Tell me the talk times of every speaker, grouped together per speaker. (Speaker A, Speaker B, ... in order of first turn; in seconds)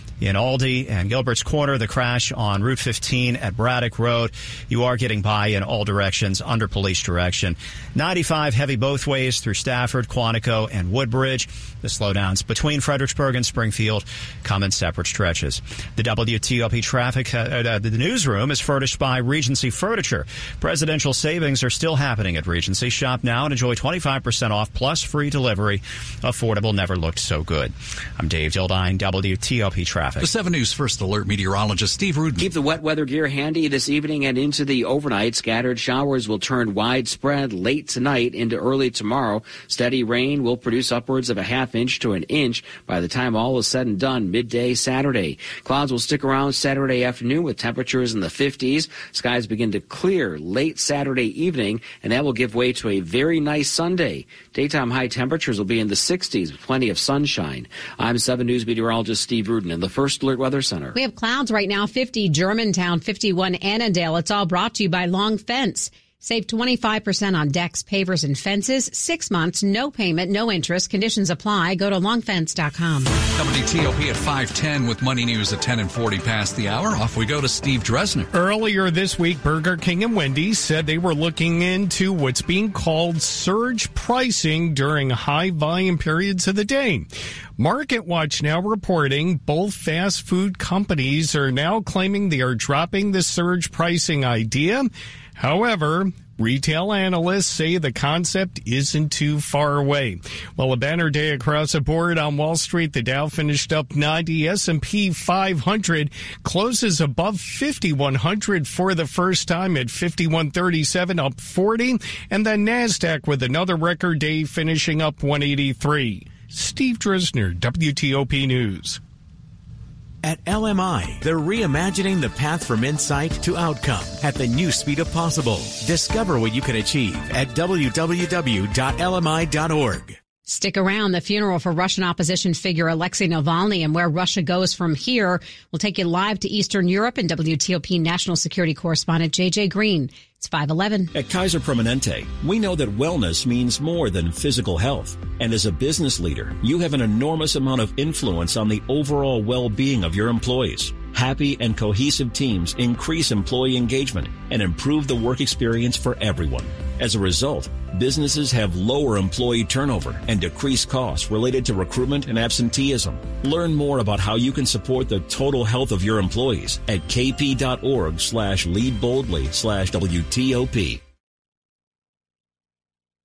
Speaker A: 0.2-30.3
Speaker B: 30.2-32.5, 73.3-78.3
Speaker C: 32.4-61.0
Speaker D: 60.9-73.1, 130.5-141.1
Speaker E: 78.3-119.0
Speaker F: 120.2-130.2
Speaker G: 141.1-171.0